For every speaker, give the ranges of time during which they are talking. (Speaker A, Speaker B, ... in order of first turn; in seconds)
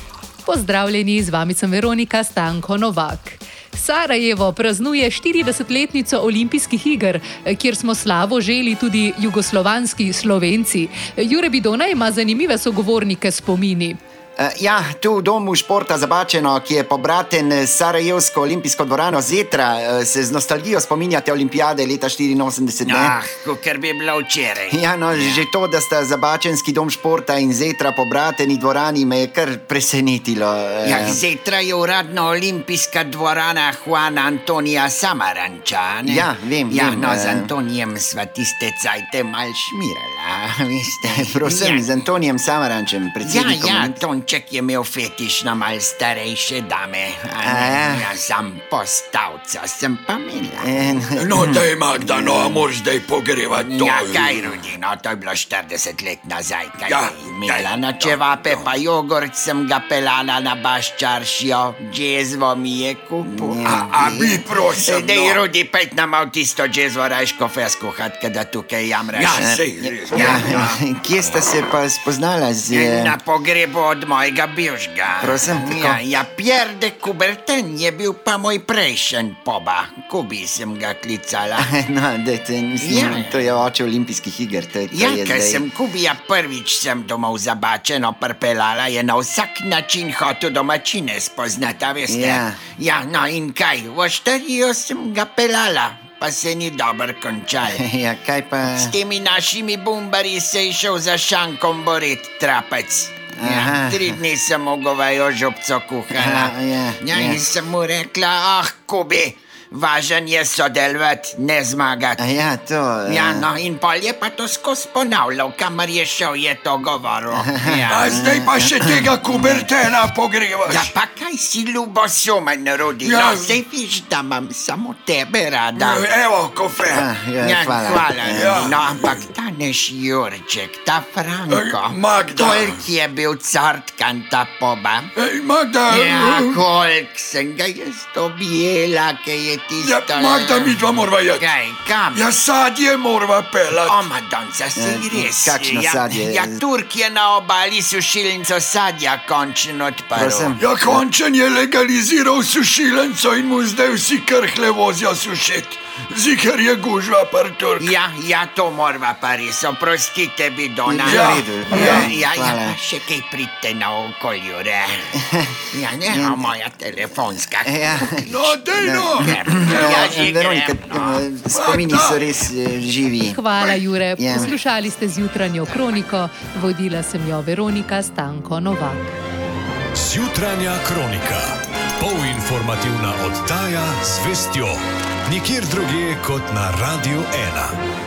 Speaker A: 0.4-14.0, 173.2-179.2
Speaker B: 14.4-23.1, 24.7-31.2, 36.0-37.5, 41.0-44.0, 47.4-48.1, 50.6-52.6, 63.2-64.4, 69.3-73.2, 75.2-76.0, 81.6-85.6, 92.1-92.6, 97.7-99.0, 103.3-104.2, 106.1-107.5, 112.2-113.5, 117.3-119.7, 126.9-128.8, 144.8-146.6, 150.2-151.0, 160.8-162.8, 165.1-166.5, 167.6-173.4, 174.2-174.6
Speaker C: 22.8-25.4, 30.8-42.0, 43.2-51.0, 53.6-64.1, 64.7-69.5, 70.1-71.5, 72.7-81.7, 82.8-83.6, 84.9-97.8, 98.7-112.2, 113.1-118.2, 120.7-126.1, 127.4-135.1, 135.9-142.2, 143.8-150.6, 157.8-165.1, 165.7-168.3, 169.2-171.3
Speaker D: 51.1-54.5, 56.8-58.7, 63.7-65.4, 69.1-70.7, 117.9-120.9, 123.0-123.6, 125.8-127.1, 128.2-129.3, 131.5-132.8, 135.2-136.6, 139.8-144.1, 150.6-158.0, 160.9-162.1, 168.2-170.2, 171.4-172.2
Speaker E: 179.9-187.8